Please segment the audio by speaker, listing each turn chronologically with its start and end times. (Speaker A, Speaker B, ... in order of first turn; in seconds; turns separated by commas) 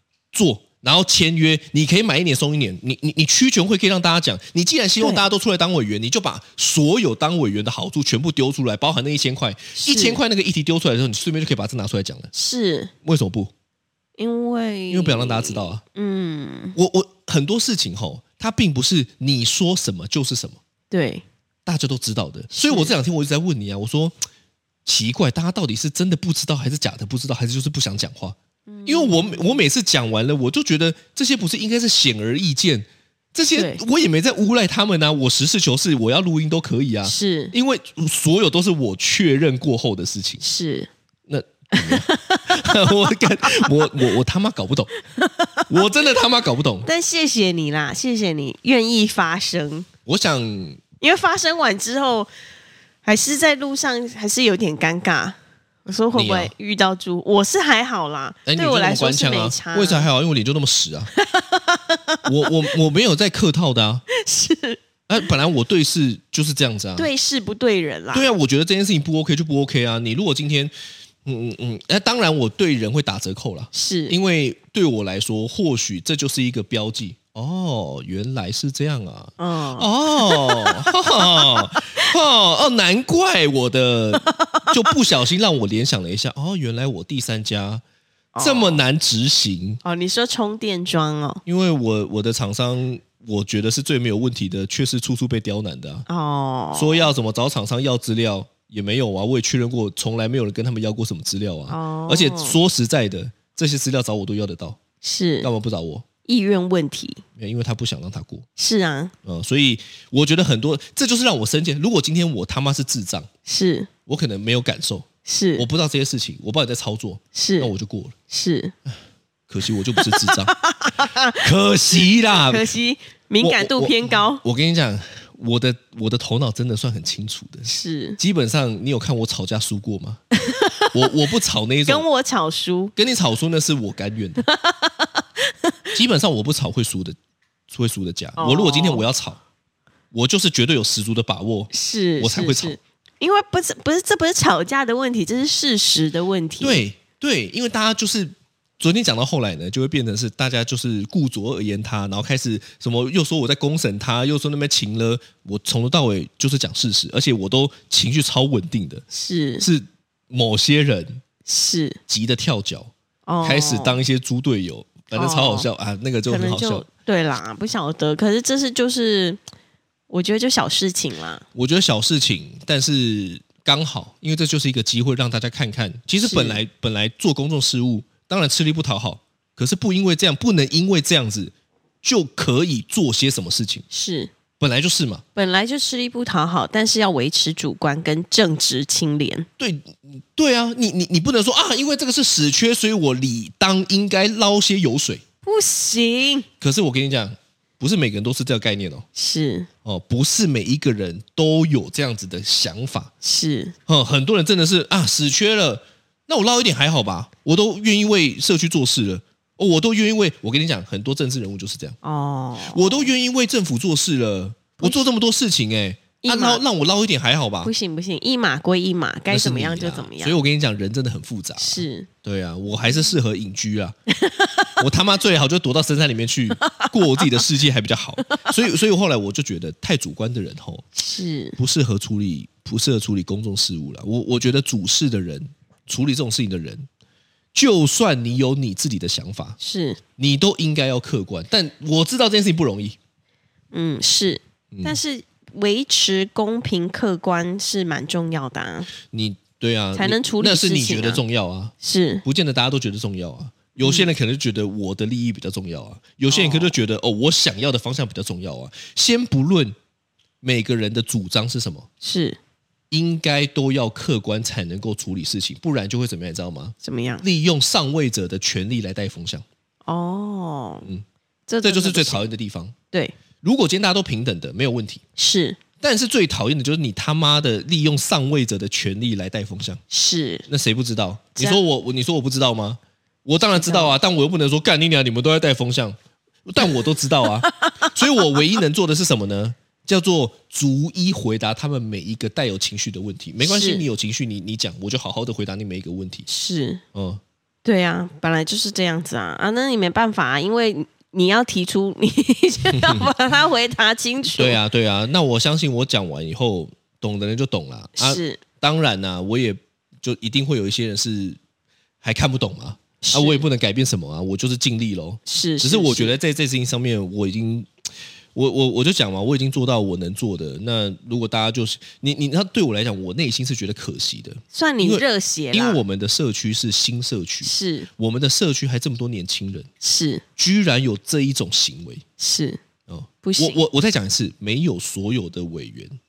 Speaker A: 0.3-12.3, Speaker B: 9.7-10.2, Speaker B: 12.3-12.9, Speaker A: 13.0-13.5, Speaker B: 14.2-16.8, Speaker A: 14.9-15.8, Speaker A: 16.8-20.6, Speaker B: 20.9-21.2, Speaker A: 21.6-24.1, Speaker B: 22.5-22.9, Speaker A: 24.8-40.4, Speaker B: 28.7-29.6, Speaker B: 33.5-33.8, Speaker B: 37.0-37.5, Speaker B: 40.4-40.9, Speaker A: 41.3-44.9, Speaker B: 41.7-43.9, Speaker B: 45.2-45.7, Speaker A: 45.7-46.9, Speaker B: 46.8-49.9, Speaker A: 50.0-50.8, Speaker B: 51.0-52.3, Speaker B: 53.0-60.1, Speaker A: 56.1-56.5, Speaker A: 58.5-61.1, Speaker B: 61.1-62.5, Speaker A: 62.2-64.0, Speaker B: 64.1-64.8, Speaker A: 65.1-67.1, Speaker B: 67.0-68.3, Speaker A: 68.1-70.7, Speaker A: 71.2-87.8, Speaker B: 73.7-74.2, Speaker B: 79.4-82.1, Speaker B: 84.1-84.9, Speaker B: 88.3-88.8, Speaker A: 88.4-89.8, Speaker B: 89.8-91.4, Speaker A: 91.5-96.0, Speaker B: 96.1-97.1, Speaker A: 96.7-104.8, Speaker B: 101.7-102.6, Speaker B: 105.0-105.5, Speaker A: 105.4-106.0, Speaker B: 106.2-107.2, Speaker A: 107.3-108.5, Speaker B: 108.5-109.1, Speaker A: 109.2-113.3, Speaker B: 113.5-113.9, Speaker A: 114.1-118.1, Speaker B: 115.2-115.7, Speaker B: 117.3-117.7, Speaker B: 118.3-118.7, Speaker A: 119.5-120.5, Speaker B: 120.0-121.4, Speaker A: 121.4-122.7, Speaker B: 122.0-124.4, Speaker A: 123.4-130.2, Speaker B: 127.7-128.2, Speaker B: 130.4-131.1, Speaker A: 130.9-132.1, Speaker B: 131.8-132.9, Speaker A: 132.9-134.4, Speaker B: 134.4-135.9, Speaker A: 135.9-137.2, Speaker A: 137.7-139.4, Speaker B: 138.4-139.1, Speaker A: 140.1-142.8, Speaker B: 141.7-146.8, Speaker A: 146.6-159.0, Speaker B: 159.1-159.7, Speaker A: 159.6-161.2, Speaker B: 161.4-162.0, Speaker A: 162.1-162.9, Speaker B: 163.3-164.0, Speaker A: 163.4-166.8, Speaker B: 165.1-165.7, Speaker B: 166.3-169.4, Speaker B: 170.1-171.4, Speaker A: 171.5-183.8, Speaker B: 176.2-176.6, Speaker B: 183.9-184.3, Speaker A: 184.6-185.2, Speaker B: 185.3-189.4, Speaker A: 189.6-195.2, Speaker B: 195.4-196.5, Speaker A: 196.6-199.1, Speaker B: 199.1-199.7, Speaker A: 199.8-203.1, Speaker B: 203.2-203.8, Speaker A: 203.9-212.0, Speaker B: 212.0-213.1, Speaker A: 212.7-217.7, Speaker B: 214.8-215.1, Speaker B: 216.2-216.6, Speaker B: 217.6-220.4, Speaker A: 219.3-223.9, Speaker B: 221.6-222.1, Speaker B: 224.1-224.8, Speaker A: 224.8-230.9, Speaker B: 226.6-227.4, Speaker B: 228.3-228.6, Speaker B: 230.9-231.6, Speaker A: 231.6-236.9, Speaker A: 237.5-239.6, Speaker B: 239.6-240.0, Speaker A: 240.2-243.0, Speaker B: 243.7-248.9, Speaker A: 244.7-245.0, Speaker A: 249.1-251.7, Speaker B: 249.9-251.2, Speaker B: 251.8-252.2, Speaker A: 252.2-259.7, Speaker B: 253.8-254.1, Speaker B: 256.3-256.8, Speaker A: 260.4-261.9, Speaker B: 262.0-262.4, Speaker A: 262.9-269.4, Speaker B: 266.8-267.2, Speaker B: 269.9-270.9, Speaker B: 271.5-272.2, Speaker A: 271.6-272.7, Speaker A: 273.4-275.0, Speaker B: 275.2-275.6, Speaker A: 275.8-279.8, Speaker B: 279.9-280.4, Speaker A: 280.5-296.3, Speaker B: 281.3-281.6, Speaker B: 283.4-283.9, Speaker B: 286.6-287.9, Speaker B: 293.4-293.9, Speaker B: 296.3-296.8, Speaker A: 296.9-297.2, Speaker B: 297.6-304.6, Speaker A: 302.7-303.1, Speaker A: 304.3-311.4, Speaker B: 308.0-308.4, Speaker A: 312.0-317.7, Speaker B: 313.0-313.4, Speaker B: 315.3-316.2, Speaker A: 318.3-329.7, Speaker B: 324.5-325.8, Speaker B: 327.4-327.9, Speaker B: 329.8-330.2, Speaker A: 330.4-332.0, Speaker B: 332.2-332.6, Speaker A: 332.9-336.0, Speaker B: 333.2-333.6